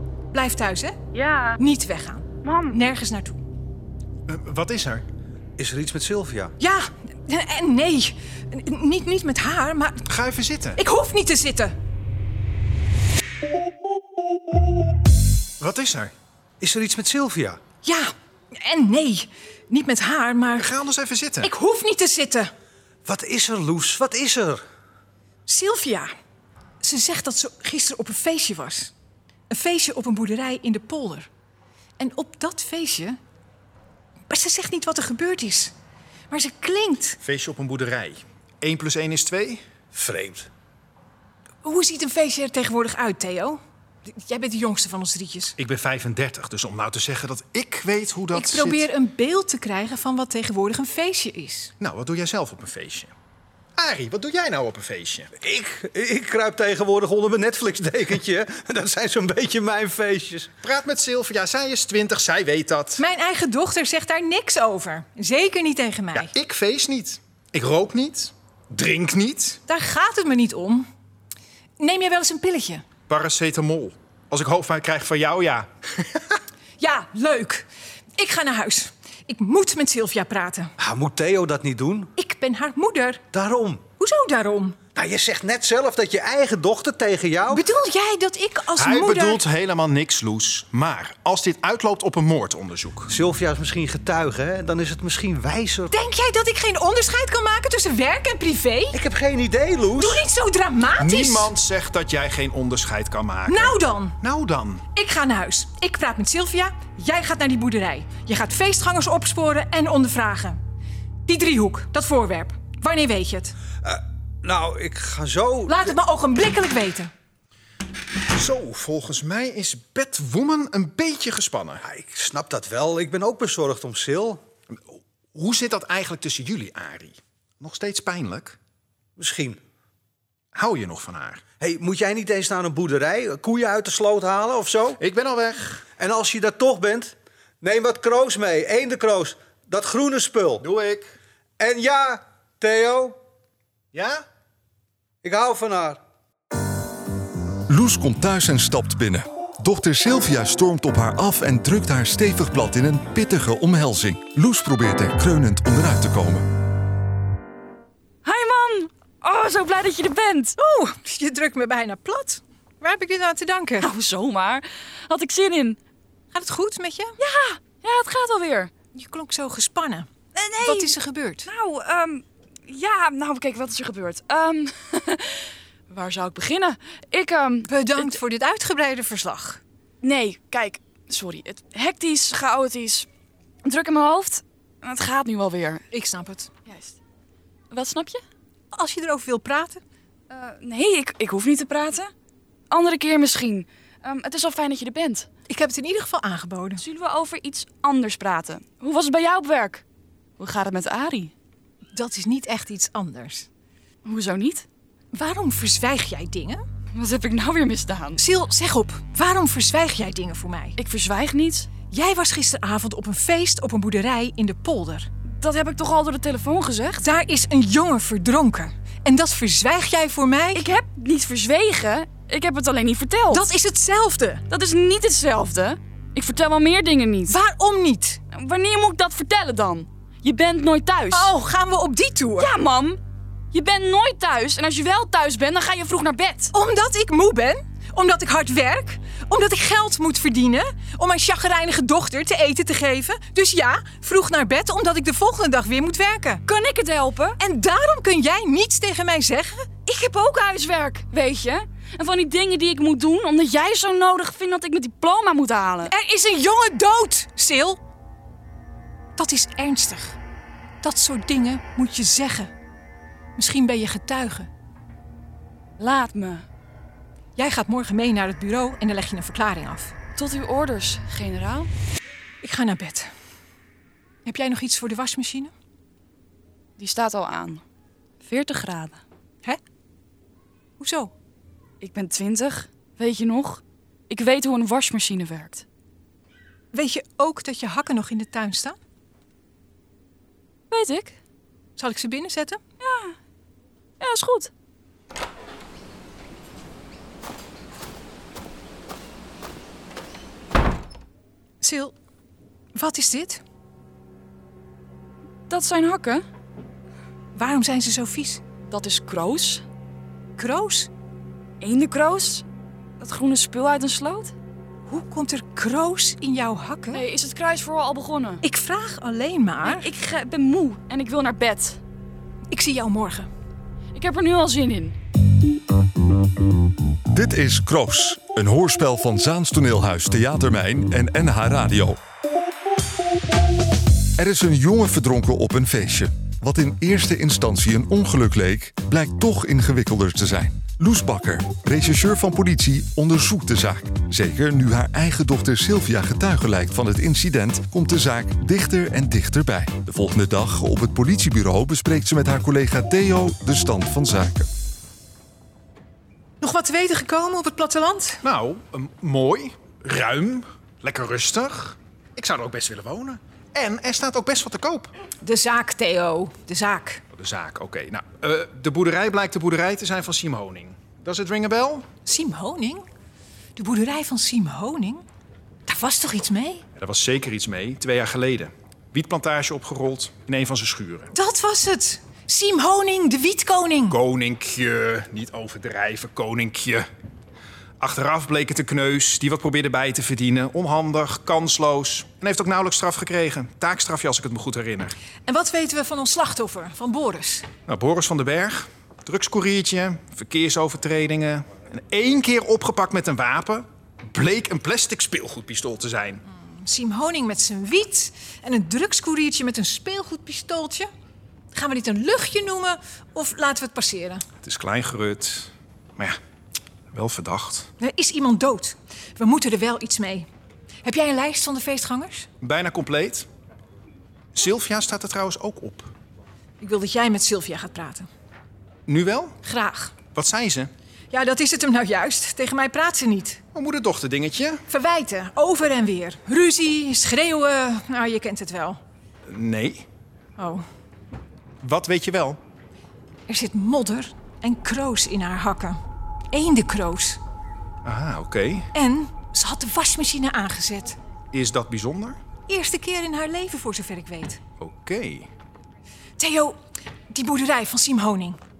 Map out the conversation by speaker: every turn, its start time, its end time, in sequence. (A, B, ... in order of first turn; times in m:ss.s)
0:00.3-0:01.0 A
0:01.1-0:01.6 B
0:01.6-0:03.4 A
0:02.4-0:02.8 B
0:04.3-0:05.0 C
0:05.6-0:06.5 D
0:06.6-0:10.0 A
0:10.1-0:10.8 C
0:10.8-0:11.7 A
0:15.6-0:16.1 C
0:16.6-0:17.6 D
0:17.8-0:20.7 A
0:20.6-0:21.5 C
0:21.4-0:22.5 A
0:23.0-0:24.6 D
0:25.5-0:26.1 A
0:26.8-0:28.9 A
0:29.5-0:31.3 A
0:32.0-0:33.2 A
0:34.3-0:35.7 A
0:36.3-0:37.2 A
0:37.2-0:39.6 C
0:39.9-0:40.5 D
0:41.6-0:45.5 A
0:45.6-0:48.9 C
0:48.3-0:51.7 A
0:51.8-0:53.1 C
0:53.8-0:55.3 C
0:55.4-1:00.5 D
1:00.6-1:03.0 C
1:03.0-1:06.3 A
1:06.1-1:09.6 C
1:09.7-1:10.9 A
1:11.8-1:12.8 A
1:13.1-1:16.4 C
1:16.8-1:17.7 A
1:18.2-1:20.7 A
1:20.8-1:22.1 D
1:22.2-1:23.2 A
1:23.3-1:23.8 D
1:24.0-1:24.8 A
1:24.9-1:27.7 D
1:27.5-1:29.4 A
1:28.8-1:33.1 C
1:33.1-1:35.9 D
1:35.9-1:39.0 A
1:38.9-1:40.2 D
1:40.0-1:41.5 A
1:41.0-1:44.8 C
1:43.5-1:44.2 A
1:44.9-1:50.6 A
1:51.3-1:53.6 A
1:53.8-1:55.9 D
1:55.7-1:57.1 A
1:58.3-2:01.8 C
2:01.8-2:04.4 D
2:05.3-2:08.6 C
2:09.2-2:09.6 D
2:10.5-2:11.4 C
2:11.6-2:15.0 D
2:15.0-2:15.8 C
2:16.0-2:20.6 D
2:20.6-2:21.1 C
2:21.6-2:23.2 D
2:23.9-2:24.2 C
2:25.2-2:26.0 D
2:27.7-2:36.5 E
2:38.2-2:40.6 B
2:40.6-2:43.9 A
2:43.8-2:45.8 B
2:46.3-2:47.2 A
2:47.2-2:48.7 B
2:48.9-2:50.1 A
2:50.3-2:50.9 B
2:50.6-2:51.5 A
2:51.4-2:58.2 B
2:57.7-2:59.6 A
3:00.0-3:03.1 B
3:03.6-3:05.8 B
3:05.9-3:06.5 A
3:06.7-3:07.0 B
3:07.7-3:08.2 B
3:08.7-3:09.8 A
3:10.3-3:12.1 B
3:12.7-3:15.3 B
3:15.5-3:16.8 A
3:16.8-3:19.8 B
3:20.4-3:21.3 B
3:21.9-3:23.5 A
3:24.0-3:24.6 B
3:25.1-3:26.6 A
3:26.9-3:28.2 B
3:28.2-3:30.8 A
3:30.8-3:31.7 B
3:31.9-3:35.1 A
3:35.3-3:37.0 B
3:37.0-3:40.7 A
3:40.5-3:43.4 B
3:43.3-3:44.4 A
3:44.5-3:47.4 B
3:47.3-3:48.2 A
3:48.3-3:51.3 B
3:51.1-3:52.5 A
3:52.4-3:53.0 B
3:53.5-3:56.5 B
3:56.5-4:06.4 A
4:06.5-4:07.4 B
4:07.4-4:09.7 A
4:09.8-4:15.9 B
4:15.9-4:17.8 A
4:19.2-4:20.2 A
4:20.8-4:22.5 A
4:23.4-4:24.5 A
4:25.8-4:26.4 B
4:27.4-4:29.9 A
4:30.2-4:31.7 B
4:32.4-4:33.1 A
4:34.2-4:35.5 A
4:36.8-4:37.6 B
4:38.2-4:39.0 B
4:40.8-4:41.1 A
4:41.8-4:45.6 B
4:46.7-4:48.8 A
4:50.7-4:51.2 B
4:51.8-4:52.6 A
4:52.8-4:53.2 B
4:54.0-4:54.5 B
5:01.6-5:01.9 A
5:02.7-5:03.4 A
5:05.5-5:06.2 B
5:07.3-5:08.4 A
5:08.7-5:09.6 B
5:10.4-5:10.9 A
5:11.6-5:12.4 B
5:13.0-5:14.3 B
5:14.9-5:17.0 A
5:16.9-5:18.4 B
5:18.4-5:19.9 A
5:19.6-5:21.8 B
5:22.5-5:23.3 A
5:23.9-5:25.0 B
5:27.1-5:32.0 E
5:34.2-5:54.5 E
5:56.4-5:58.2 A
5:58.2-6:04.9 C
6:05.2-6:07.0 A
6:07.1-6:11.9 C
6:12.0-6:12.8 A
6:13.6-6:15.0 A
6:15.7-6:16.6 A
6:16.8-6:21.1 C
6:21.1-6:24.0 A
6:23.9-6:26.9 C
6:27.8-6:35.0 C
6:35.3-6:37.5 A
6:37.7-6:46.2 C
6:46.3-6:50.9 A
6:51.5-6:54.2 A
6:54.4-6:56.2 C
6:56.9-6:57.7 C
6:57.8-7:00.3 A
7:00.8-7:02.3 A
7:02.4-7:03.3 C
7:04.3-7:05.9 C
7:06.6-7:08.1 A
7:08.9-7:09.4 C
7:09.4-7:09.9 A
7:10.1-7:10.7 C
7:11.1-7:13.4 A
7:13.5-7:14.6 C
7:14.7-7:18.8 A
7:19.3-7:19.8 C
7:20.4-7:20.6 A
7:21.6-7:22.4 C
7:23.3-7:25.8 A
7:26.3-7:27.2 A
7:27.8-7:28.7 C
7:28.7-7:31.0 A
7:31.3-7:32.2 C
7:32.5-7:34.4 A
7:34.6-7:35.3 C
7:36.2-7:36.6 A
7:37.1-7:38.4 A